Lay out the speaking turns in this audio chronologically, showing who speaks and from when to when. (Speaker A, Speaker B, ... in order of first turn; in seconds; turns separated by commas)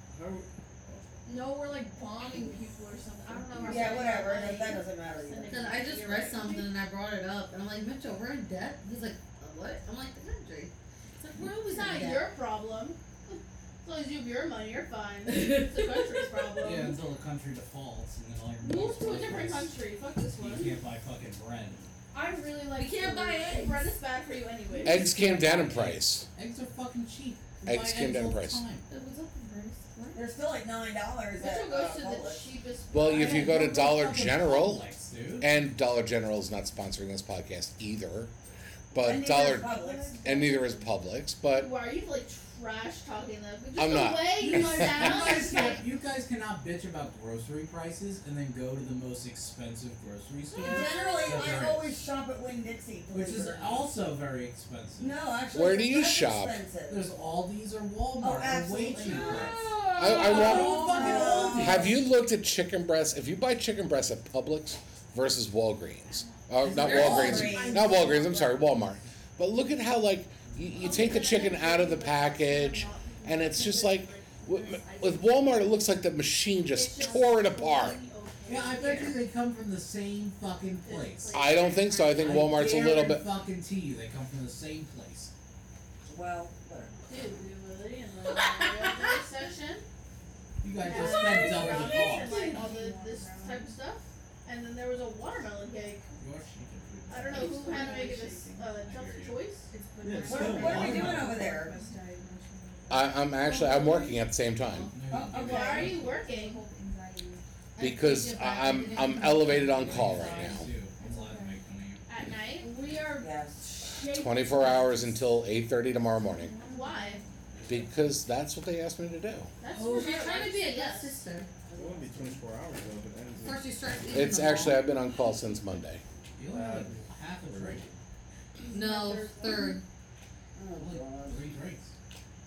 Speaker A: 0.1-1.2, Speaker B: 1.2-4.6, Speaker C: 3.3-4.4, Speaker D: 3.3-6.6, Speaker E: 3.6-5.7, Speaker C: 5.5-12.2, Speaker B: 6.1-6.7, Speaker D: 11.6-16.9, Speaker C: 15.3-16.1, Speaker F: 16.6-19.7, Speaker D: 18.6-20.7, Speaker F: 20.4-21.8, Speaker B: 22.1-23.7, Speaker D: 22.6-25.0, Speaker C: 22.8-23.9, Speaker F: 24.8-28.9, Speaker G: 24.8-26.2, Speaker G: 27.6-28.6, Speaker C: 28.9-30.2, Speaker E: 30.1-32.5, Speaker D: 31.4-33.6, Speaker G: 32.9-34.9, Speaker F: 33.1-35.6, Speaker G: 35.4-38.3, Speaker G: 38.9-41.7, Speaker E: 39.0-40.6, Speaker B: 39.8-40.2, Speaker D: 41.5-45.8, Speaker G: 43.8-45.3, Speaker F: 44.4-52.0, Speaker E: 50.5-53.9, Speaker F: 53.1-55.1, Speaker E: 55.0-57.1, Speaker G: 55.5-56.6, Speaker F: 56.9-61.9, Speaker E: 58.2-61.9, Speaker B: 59.1-61.7, Speaker C: 59.3-59.8, Speaker G: 60.0-60.9, Speaker G: 61.5-78.0, Speaker C: 66.6-67.7, Speaker E: 66.7-67.9, Speaker B: 66.9-68.6, Speaker D: 67.5-67.7, Speaker A: 70.5-70.8, Speaker D: 70.8-72.9, Speaker B: 70.8-75.7, Speaker D: 76.7-79.2, Speaker B: 77.0-77.7, Speaker F: 78.5-81.4, Speaker B: 78.5-79.1, Speaker D: 80.8-82.1, Speaker G: 81.3-83.3, Speaker C: 81.5-82.2, Speaker F: 82.2-85.3, Speaker E: 86.0-86.9, Speaker D: 87.1-89.8, Speaker C: 88.3-89.2, Speaker F: 90.6-92.5, Speaker B: 90.8-93.7, Speaker D: 90.8-96.1, Speaker F: 96.2-98.1, Speaker D: 97.1-99.7, Speaker B: 97.1-98.7, Speaker F: 98.7-99.4, Speaker B: 99.7-104.2, Speaker A: 100.0-101.3, Speaker E: 100.2-101.8, Speaker G: 102.9-104.9, Speaker C: 104.6-104.9, Speaker F: 104.9-106.1, Speaker E: 105.1-106.0, Speaker D: 105.4-106.6, Speaker B: 105.6-107.4, Speaker C: 107.8-110.6, Speaker G: 107.8-110.7, Speaker F: 109.6-112.0, Speaker B: 111.0-111.5, Speaker D: 112.1-112.7, Speaker B: 112.6-115.3, Speaker E: 113.2-113.6, Speaker G: 114.1-116.5, Speaker B: 116.2-117.3, Speaker D: 116.7-117.2, Speaker F: 117.6-117.9, Speaker G: 117.7-119.5, Speaker D: 119.6-121.2, Speaker E: 119.7-120.5, Speaker C: 119.9-121.5, Speaker E: 121.7-122.4, Speaker A: 121.8-123.7, Speaker C: 123.4-124.9, Speaker G: 124.1-126.0, Speaker F: 126.4-127.9, Speaker A: 126.5-128.0, Speaker B: 128.6-129.8, Speaker C: 128.7-129.8, Speaker E: 130.5-131.4, Speaker F: 130.7-131.9